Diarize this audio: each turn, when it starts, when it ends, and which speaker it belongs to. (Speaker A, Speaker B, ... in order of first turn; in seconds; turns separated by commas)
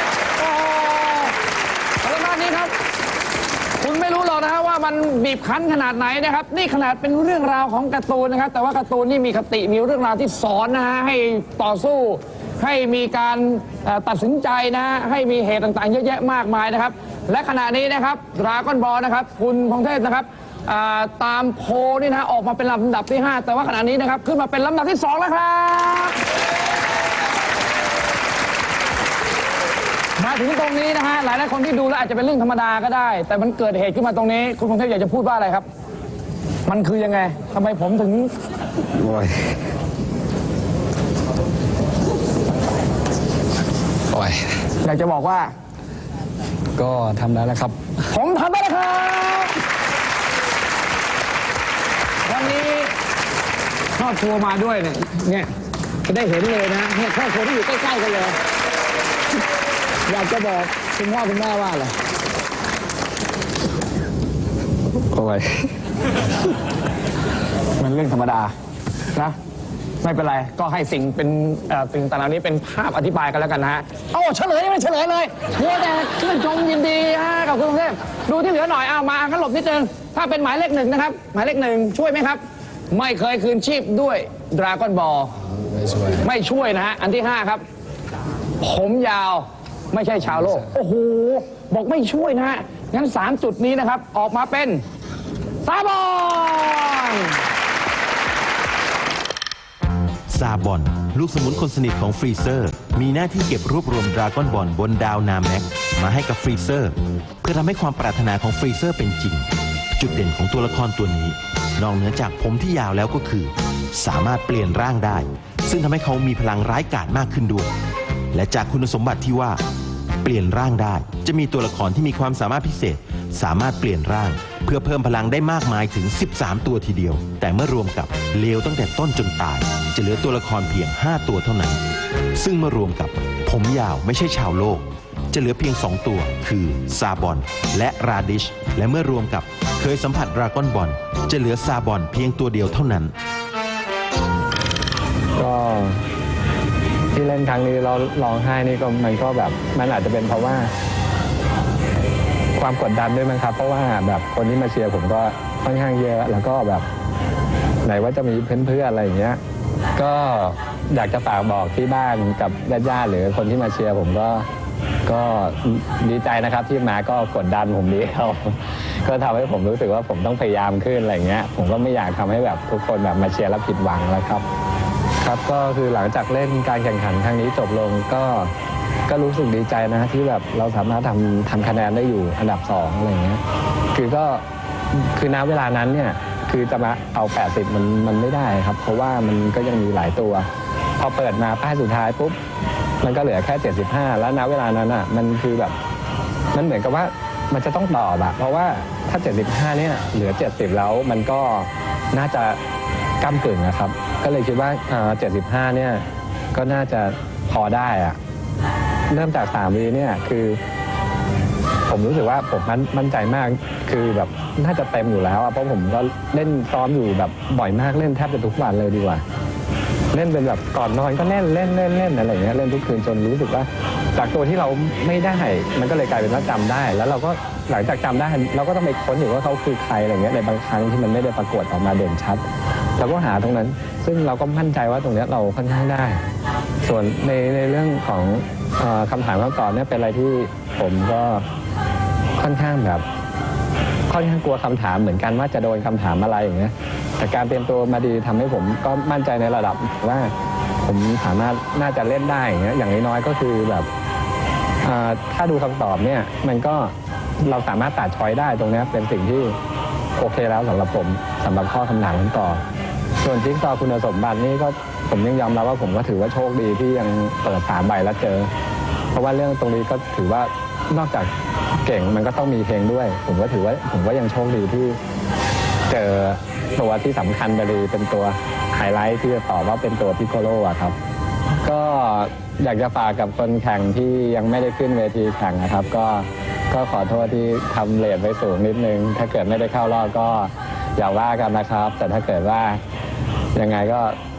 Speaker A: 0.4-1.4, Speaker A: 2.0-2.7, Speaker A: 3.8-26.2, Speaker A: 30.2-35.6, Speaker A: 36.6-38.3, Speaker B: 39.0-39.5, Speaker B: 44.1-44.5, Speaker A: 44.8-45.5, Speaker B: 46.8-47.8, Speaker A: 48.1-49.5, Speaker A: 52.2-52.9, Speaker A: 54.0-55.5, Speaker A: 56.0-58.4, Speaker A: 60.1-61.9, Speaker C: 65.1-65.5, Speaker A: 67.8-68.5, Speaker A: 70.0-85.3, Speaker B: 85.7-86.2, Speaker A: 86.2-87.6, Speaker A: 88.6-94.8, Speaker A: 95.6-97.3, Speaker D: 100.3-117.7, Speaker D: 118.3-119.6, Speaker D: 120.2-131.8, Speaker D: 132.3-143.1, Speaker C: 145.3-146.0, Speaker C: 147.1-150.7, Speaker C: 152.6-156.8, Speaker C: 157.8-159.4, Speaker C: 159.9-164.4, Speaker C: 165.1-174.4, Speaker C: 175.2-178.5, Speaker C: 179.1-183.4, Speaker C: 183.9-190.5, Speaker C: 191.0-192.4, Speaker C: 193.0-195.8, Speaker C: 196.5-202.6, Speaker C: 203.2-208.2, Speaker C: 209.1-210.6, Speaker C: 211.9-219.2, Speaker C: 220.1-232.4, Speaker C: 233.0-236.2, Speaker C: 236.8-241.4, Speaker C: 242.4-243.0, Speaker C: 244.1-253.9, Speaker C: 254.8-259.6, Speaker C: 260.2-262.6, Speaker C: 263.2-268.5, Speaker C: 269.1-271.3, Speaker C: 271.8-275.0, Speaker C: 275.9-280.9, Speaker C: 281.6-292.8, Speaker C: 293.5-294.2